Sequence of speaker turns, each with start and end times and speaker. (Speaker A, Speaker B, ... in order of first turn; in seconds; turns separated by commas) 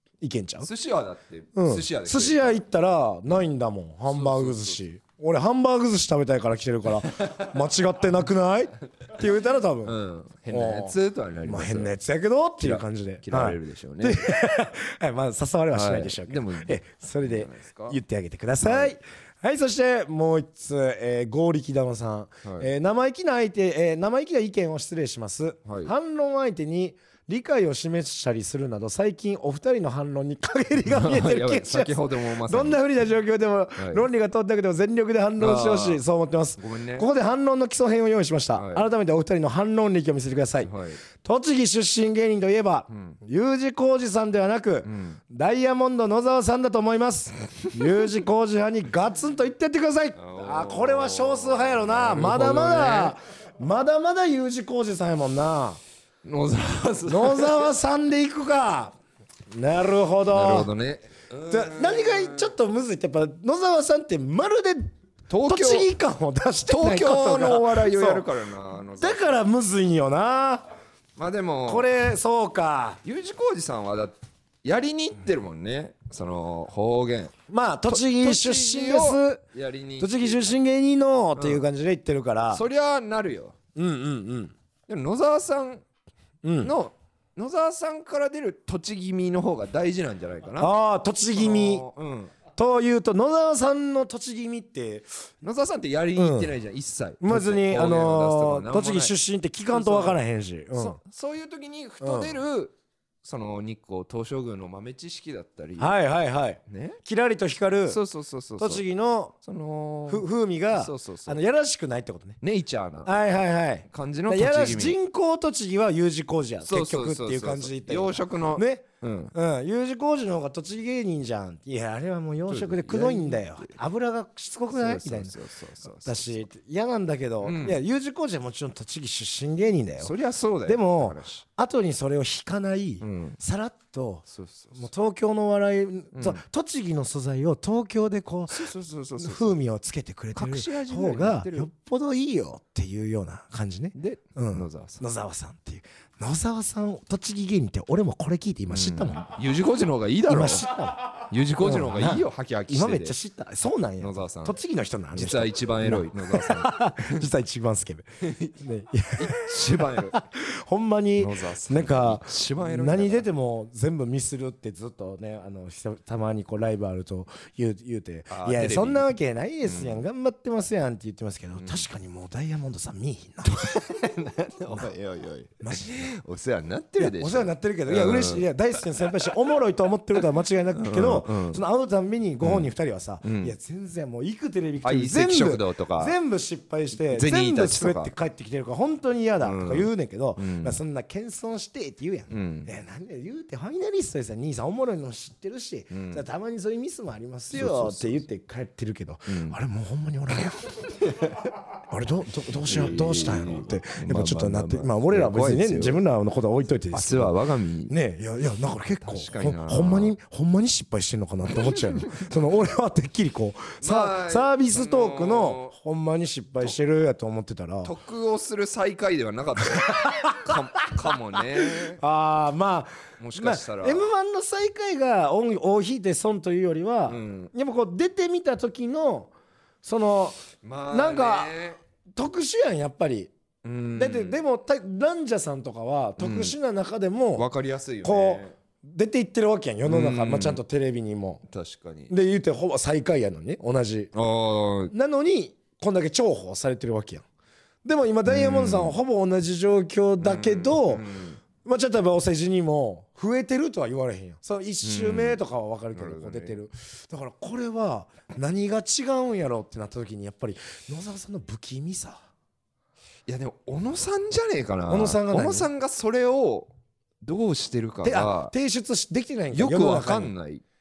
Speaker A: 0.2-0.7, Speaker B: 0.6-2.6, Speaker A: 1.6-10.0, Speaker B: 4.1-4.8, Speaker B: 9.8-11.9, Speaker A: 10.5-55.8, Speaker B: 12.6-14.4, Speaker B: 15.7-18.0, Speaker B: 18.6-18.9, Speaker B: 22.4-22.7, Speaker B: 25.7-25.9, Speaker B: 30.9-32.8, Speaker B: 33.8-34.1, Speaker B: 35.4-36.0, Speaker B: 36.6-37.1, Speaker B: 38.5-38.9, Speaker B: 40.6-41.0, Speaker B: 42.9-43.2, Speaker B: 44.9-45.2, Speaker B: 50.2-53.2, Speaker B: 56.2-57.6, Speaker A: 57.1-58.9, Speaker A: 59.5-60.7, Speaker B: 60.3-62.5, Speaker A: 61.5-64.8, Speaker B: 65.3-65.9, Speaker A: 65.3-68.3, Speaker B: 66.7-69.4, Speaker A: 69.0-70.7, Speaker B: 71.2-71.9, Speaker A: 71.7-73.0, Speaker B: 73.0-77.3, Speaker A: 77.5-79.4, Speaker B: 77.9-80.5, Speaker A: 80.0-82.6, Speaker B: 81.4-81.6, Speaker B: 82.5-83.6, Speaker A: 83.8-84.5, Speaker B: 84.9-85.8, Speaker A: 86.4-86.7, Speaker B: 86.6-90.7, Speaker A: 90.6-91.9, Speaker B: 91.3-92.3, Speaker A: 92.6-95.1, Speaker B: 95.4-99.1, Speaker A: 96.2-96.5, Speaker A: 97.2-101.0, Speaker B: 99.7-100.2, Speaker B: 100.8-106.0, Speaker A: 102.0-102.4, Speaker A: 105.8-108.0, Speaker B: 106.7-107.0, Speaker B: 107.9-108.8, Speaker A: 108.6-109.4, Speaker B: 109.4-111.4, Speaker A: 110.1-112.4, Speaker B: 112.4-113.2, Speaker A: 113.0-149.3, Speaker B: 113.9-115.0, Speaker B: 116.6-119.3, Speaker B: 122.5-123.8, Speaker B: 124.7-126.5, Speaker B: 127.4-127.8, Speaker B: 130.0-131.4, Speaker B: 133.0-133.4, Speaker B: 134.3-134.9, Speaker B: 136.1-136.4, Speaker B: 138.5-139.6, Speaker B: 140.3-141.7, Speaker B: 143.9-145.0, Speaker B: 148.7-150.7, Speaker A: 150.3-173.8, Speaker B: 151.3-153.2, Speaker B: 154.0-154.6, Speaker B: 155.1-157.3, Speaker B: 158.2-158.6, Speaker B: 159.2-160.2, Speaker B: 161.2-163.3, Speaker B: 168.3-169.1, Speaker B: 169.7-170.1, Speaker B: 171.6-171.8, Speaker B: 173.5-178.5, Speaker A: 175.6-176.1, Speaker A: 177.0-201.1, Speaker B: 180.8-181.6, Speaker B: 182.4-182.7, Speaker B: 183.2-183.5, Speaker B: 184.8-186.2, Speaker B: 187.0-188.1, Speaker B: 189.4-190.8, Speaker B: 192.3-192.7, Speaker B: 195.9-196.2, Speaker B: 197.5-198.3, Speaker B: 199.3-199.6, Speaker B: 201.1-201.4, Speaker A: 201.8-207.4, Speaker B: 202.7-206.0, Speaker B: 206.9-207.9, Speaker A: 207.9-217.9, Speaker B: 209.0-210.2, Speaker B: 211.5-212.3, Speaker B: 213.8-215.8, Speaker B: 217.8-222.0, Speaker A: 219.8-220.6, Speaker A: 221.6-229.3, Speaker B: 223.2-224.1, Speaker B: 227.1-227.5, Speaker A: 229.8-231.6, Speaker B: 230.6-231.8, Speaker A: 232.2-233.3, Speaker B: 233.6-234.4, Speaker A: 234.0-237.5, Speaker B: 236.2-236.6, Speaker B: 237.3-238.6, Speaker A: 238.0-241.4, Speaker B: 239.8-240.6, Speaker B: 241.5-242.1, Speaker A: 242.1-244.1, Speaker B: 244.1-244.9, Speaker A: 244.9-247.2, Speaker A: 247.8-251.1, Speaker B: 248.3-249.0, Speaker B: 250.2-251.4, Speaker A: 251.6-262.3, Speaker B: 254.8-255.4, Speaker B: 255.9-256.6, Speaker B: 263.3-266.7, Speaker A: 264.9-265.7, Speaker B: 267.2-268.5, Speaker A: 268.0-270.3, Speaker B: 269.5-270.6